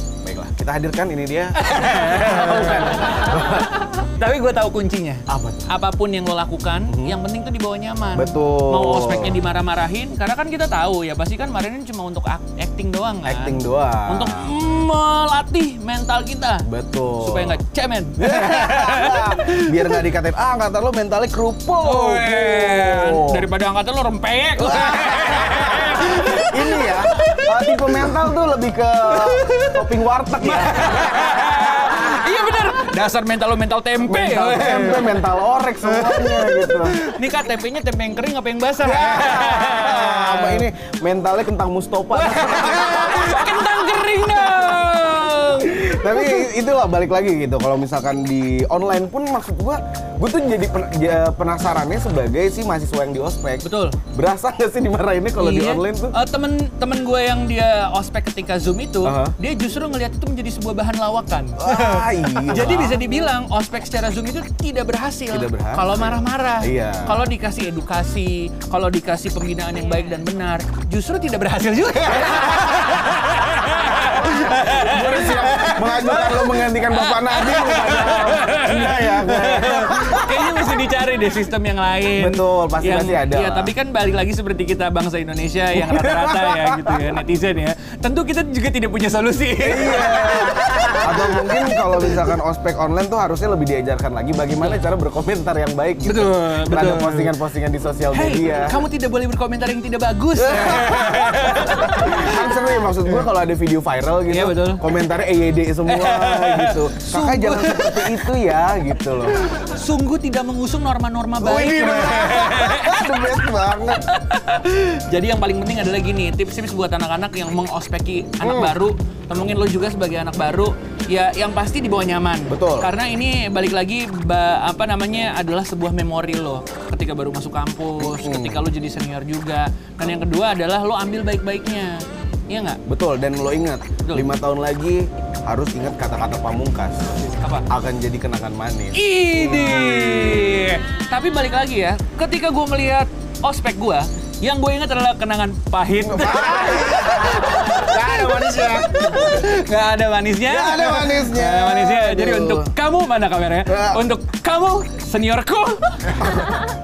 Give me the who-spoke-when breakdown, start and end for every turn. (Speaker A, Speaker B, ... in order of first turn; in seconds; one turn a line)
Speaker A: 0.2-3.8
Speaker B: 1.6-16.7
Speaker A: 5.3-5.7
Speaker A: 6.9-7.2
Speaker A: 8.1-9.4
Speaker A: 13.2-14.5
Speaker A: 16.6-17.6
Speaker B: 17.2-20.0
Speaker A: 18.2-23.5
Speaker B: 21.8-28.3
Speaker A: 24.6-32.0
Speaker B: 29.1-35.2
Speaker A: 34.0-37.0
Speaker B: 35.8-40.6
Speaker A: 38.8-44.8
Speaker B: 42.1-46.5
Speaker A: 45.6-56.1
Speaker B: 53.6-54.0
Speaker B: 55.4-92.3
Speaker A: 59.0-59.3
Speaker A: 61.6-63.1
Speaker A: 65.3-67.2
Speaker A: 72.2-72.6
Speaker A: 74.3-80.5
Speaker A: 82.1-83.7
Speaker A: 85.7-87.1
Speaker A: 89.6-98.8
Speaker B: 96.0-97.3
Speaker B: 98.1-102.5
Speaker A: 100.3-109.5
Speaker B: 104.3-104.8
Speaker B: 105.8-108.3
Speaker B: 109.3-132.8
Speaker A: 111.4-114.0
Speaker A: 118.4-118.8
Speaker A: 122.5-122.9
Speaker A: 128.0-128.7
Speaker A: 132.9-137.0
Speaker B: 137.4-137.7
Speaker A: 137.7-140.8
Speaker B: 138.9-156.7
Speaker A: 146.0-149.4
Speaker A: 150.4-152.7
Speaker A: 153.6-154.1
Speaker A: 156.2-156.7